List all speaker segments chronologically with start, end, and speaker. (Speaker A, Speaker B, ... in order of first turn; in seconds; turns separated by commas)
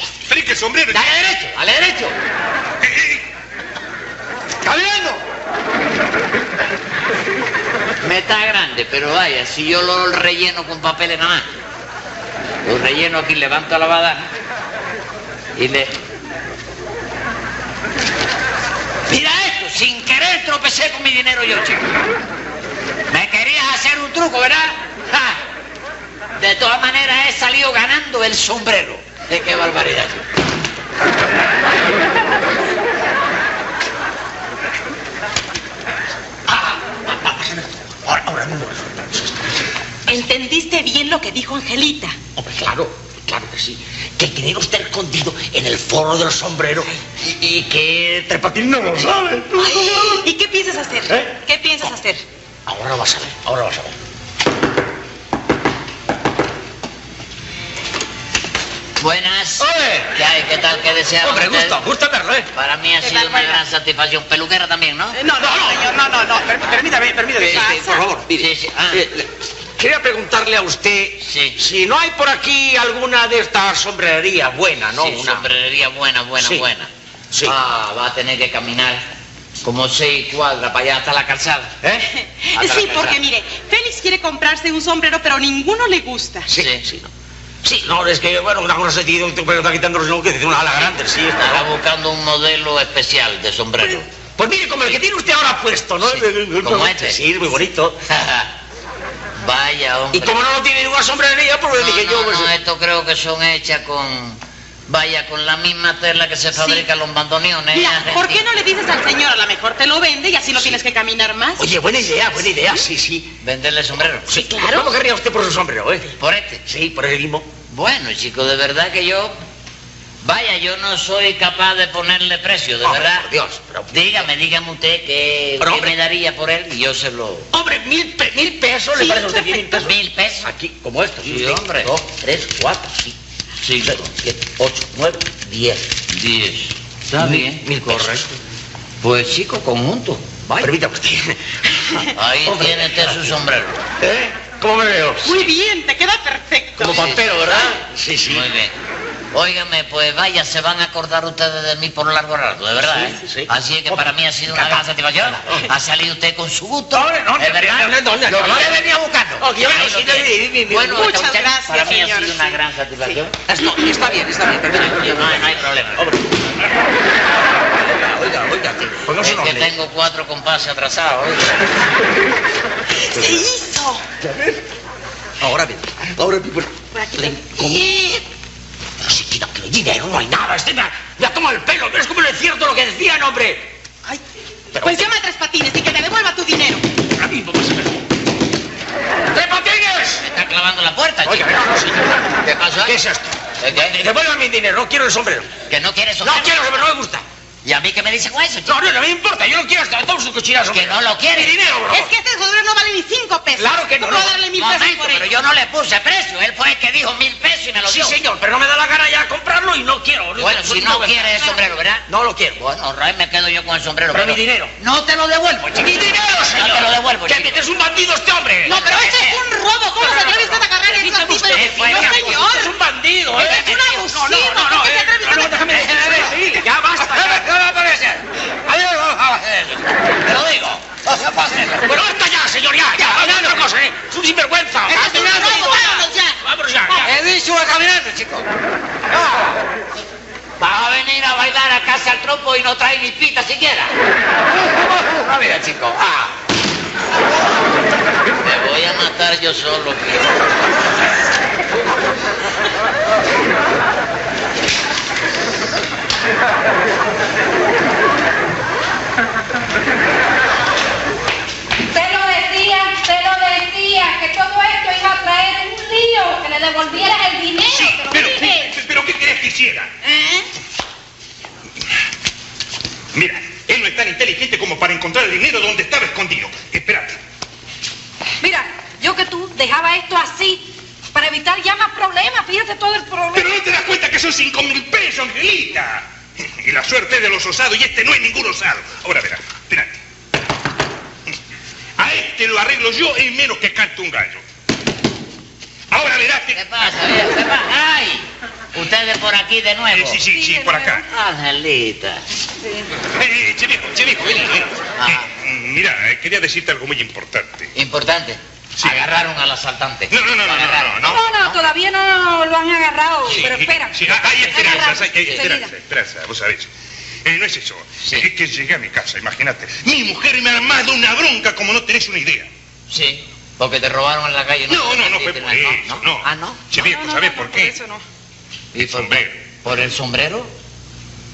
Speaker A: 0.3-1.2, Speaker B: 0.9-2.2, Speaker A: 2.8-3.2, Speaker B: 8.0-11.5, Speaker B: 12.6-14.3, Speaker B: 15.6-16.0, Speaker B: 19.1-21.9, Speaker B: 23.1-25.4, Speaker B: 26.4-30.2, Speaker C: 36.5-39.5, Speaker D: 40.1-42.2, Speaker C: 42.4-50.3, Speaker D: 49.6-52.2, Speaker C: 51.1-51.4, Speaker C: 52.7-54.0, Speaker B: 59.0-61.8, Speaker C: 59.6-60.2, Speaker C: 61.2-62.5, Speaker B: 62.5-65.2, Speaker D: 63.0-63.6, Speaker D: 65.1-68.1, Speaker C: 65.3-75.5, Speaker B: 68.3-69.1, Speaker B: 71.2-71.6, Speaker B: 74.9-76.9, Speaker C: 76.4-76.7, Speaker C: 77.3-77.6, Speaker B: 77.4-79.0, Speaker B: 79.6-81.8, Speaker C: 81.8-82.1, Speaker D: 82.3-86.5, Speaker B: 82.5-83.2, Speaker C: 86.5-87.1, Speaker B: 86.5-86.8, Speaker C: 87.6-91.7, Speaker B: 91.4-94.1, Speaker C: 93.8-98.0, Speaker B: 96.0-97.2, Speaker B: 98.1-98.5, Speaker B: 99.4-100.4, Speaker C: 100.1-102.5, Speaker B: 101.7-108.4, Speaker D: 106.5-106.9, Speaker D: 107.7-111.6, Speaker C: 111.6-113.3, Speaker B: 113.4-114.5, Speaker C: 114.3-117.5, Speaker D: 114.4-114.9, Speaker B: 116.2-116.6, Speaker B: 117.7-119.4, Speaker B: 120.2-123.3, Speaker C: 122.8-124.3, Speaker B: 123.9-127.5, Speaker C: 125.6-126.0, Speaker C: 127.5-133.2, Speaker D: 128.9-129.7, Speaker B: 129.6-130.5, Speaker B: 131.2-131.9, Speaker B: 133.6-134.1, Speaker C: 133.8-135.8, Speaker B: 136.1-138.2, Speaker C: 137.1-138.4, Speaker B: 139.0-140.7, Speaker C: 140.5-143.3, Speaker B: 142.1-143.8, Speaker C: 144.0-145.5, Speaker D: 145.2-147.2, Speaker C: 146.8-148.5, Speaker B: 146.8-148.8, Speaker B: 149.3-163.3, Speaker C: 152.8-155.7, Speaker C: 156.9-161.1, Speaker D: 160.8-162.6, Speaker C: 163.4-166.5, Speaker B: 164.7-166.1, Speaker C: 167.7-169.7, Speaker B: 169.2-171.7, Speaker C: 173.1-173.5, Speaker D: 173.1-174.0, Speaker C: 174.1-174.6, Speaker C: 175.4-178.2, Speaker D: 177.0-178.0, Speaker C: 179.0-183.7, Speaker C: 184.7-185.1, Speaker D: 184.8-186.8, Speaker C: 187.2-188.0, Speaker C: 189.3-190.2, Speaker B: 190.2-191.6, Speaker C: 191.2-195.5, Speaker B: 192.4-193.0, Speaker B: 193.6-194.0, Speaker B: 195.7-196.6, Speaker C: 196.2-197.2, Speaker B: 197.6-198.8, Speaker C: 198.7-202.1, Speaker B: 200.7-201.6, Speaker D: 201.9-205.3, Speaker C: 203.6-204.4, Speaker B: 204.6-208.2, Speaker C: 207.8-212.6, Speaker B: 210.4-217.6, Speaker C: 214.1-214.7, Speaker C: 215.7-219.2, Speaker B: 218.7-219.4, Speaker D: 218.7-222.7, Speaker C: 219.9-227.5, Speaker B: 220.9-222.4, Speaker B: 223.3-224.4, Speaker D: 223.4-226.0, Speaker B: 225.6-232.0, Speaker C: 228.7-229.5, Speaker C: 231.8-237.2, Speaker B: 233.0-233.7, Speaker B: 234.9-236.1, Speaker D: 235.0-236.3, Speaker B: 236.9-238.5, Speaker B: 240.6-244.0, Speaker B: 244.7-246.4, Speaker B: 248.4-250.4, Speaker E: 261.9-268.7, Speaker A: 267.7-270.0, Speaker E: 270.0-270.5, Speaker A: 273.1-277.2, Speaker E: 278.4-283.6, Speaker A: 283.3-290.0, Speaker A: 292.0-294.4, Speaker A: 295.9-296.6, Speaker B: 296.5-300.2, Speaker A: 299.9-301.1, Speaker E: 300.3-301.0, Speaker B: 301.0-302.2, Speaker E: 302.6-302.9, Speaker A: 303.1-307.7, Speaker B: 305.0-305.3, Speaker B: 307.7-311.7, Speaker A: 308.8-309.1, Speaker A: 310.1-311.2, Speaker E: 311.0-315.7, Speaker A: 313.3-316.7, Speaker B: 314.2-315.5, Speaker A: 317.2-322.5, Speaker B: 322.9-326.6, Speaker A: 324.7-327.8, Speaker E: 326.8-328.0, Speaker B: 328.7-330.5, Speaker A: 328.8-329.4